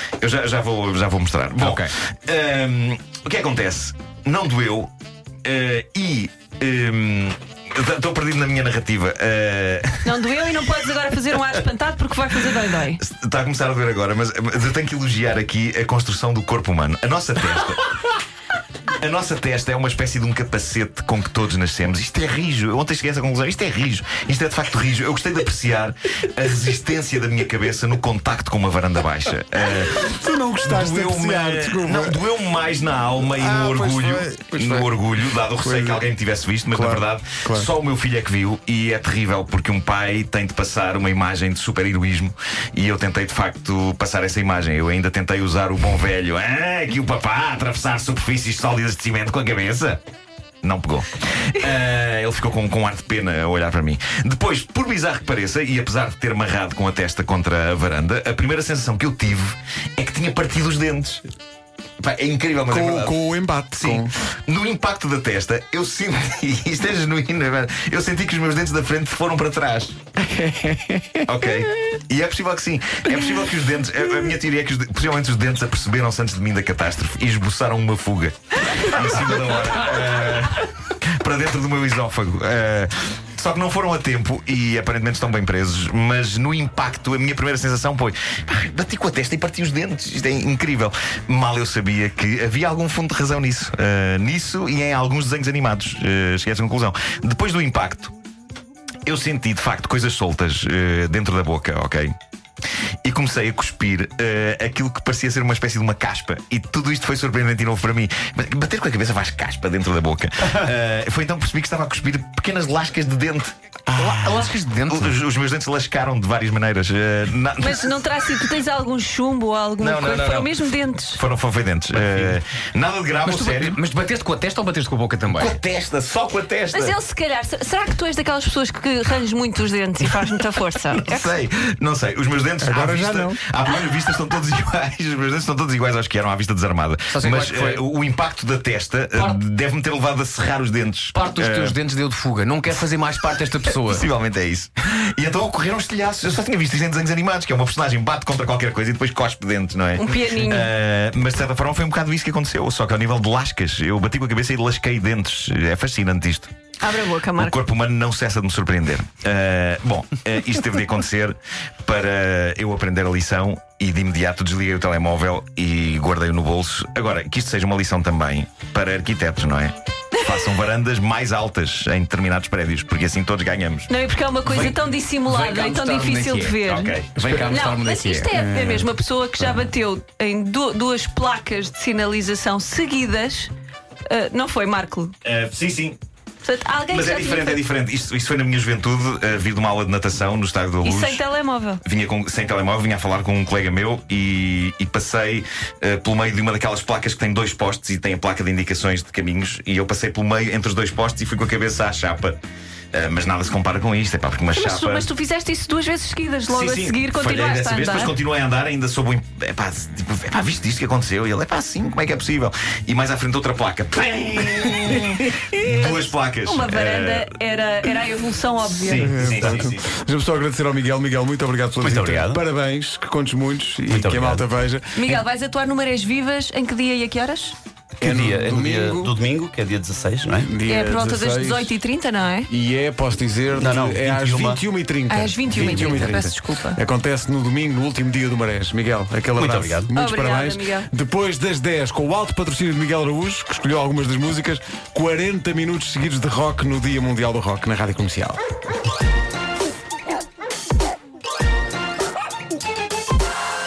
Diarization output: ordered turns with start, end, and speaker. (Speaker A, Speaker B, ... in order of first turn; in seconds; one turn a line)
Speaker A: 0.2-4.9
Speaker B: 1.6-1.9
Speaker A: 5.4-10.4
Speaker C: 10.0-13.0
Speaker A: 13.0-17.8
Speaker A: 19.0-50.0
Speaker D: 29.8-32.2
Speaker D: 33.3-34.9
Speaker D: 35.5-36.0
Speaker D: 36.7-37.7
Speaker A: 50.6-61.2
Speaker A: 62.0-70.0
Speaker D: 62.7-64.1
Speaker D: 70.2-71.3
Speaker A: 71.2-98.1
Speaker A: 99.0-102.1
Speaker A: 103.0-118.4
Speaker B: 113.9-115.1
Speaker C: 117.6-121.2
Speaker A: 119.8-120.5
Speaker A: 121.1-123.8
Speaker B: 122.0-122.3
Speaker B: 123.2-125.6
Speaker A: 125.3-127.0
Speaker C: 126.7-131.3
Speaker A: 130.8-141.8
Speaker D: 132.6-133.4
Speaker B: 137.1-137.8
Speaker B: 139.1-139.4
Speaker B: 141.1-144.1
Speaker A: 143.6-156.5
Speaker C: 149.9-150.7
Speaker C: 156.8-157.6
Speaker A: 157.3-173.9
Speaker C: 173.9-183.5
Speaker B: 174.4-176.6
Speaker A: 176.6-177.1
Speaker B: 177.1-178.3
Speaker D: 178.3-178.9
Speaker C: 184.1-185.1
Speaker A: 185.2-186.0
Speaker C: 186.4-187.6
Speaker A: 186.9-191.2
Speaker C: 190.8-191.8
Speaker A: 191.8-202.4
Speaker A: 202.9-205.1
Speaker C: 204.5-208.1
Speaker A: 206.5-217.3
Speaker D: 214.7-215.2
Speaker C: 216.4-219.1
Speaker A: 218.7-219.9
Speaker D: 219.0-225.2
Speaker E: 221.8-222.4
Speaker E: 223.9-224.4
Speaker C: 224.9-227.6
Speaker E: 228.0-230.5
Speaker D: 228.0-229.1
Speaker D: 230.4-231.8
Speaker C: 230.6-232.5
Speaker D: 232.5-248.4
Speaker E: 233.5-234.7
Speaker C: 235.1-236.8
Speaker E: 235.7-236.0
Speaker E: 239.3-239.9
Speaker C: 239.9-240.9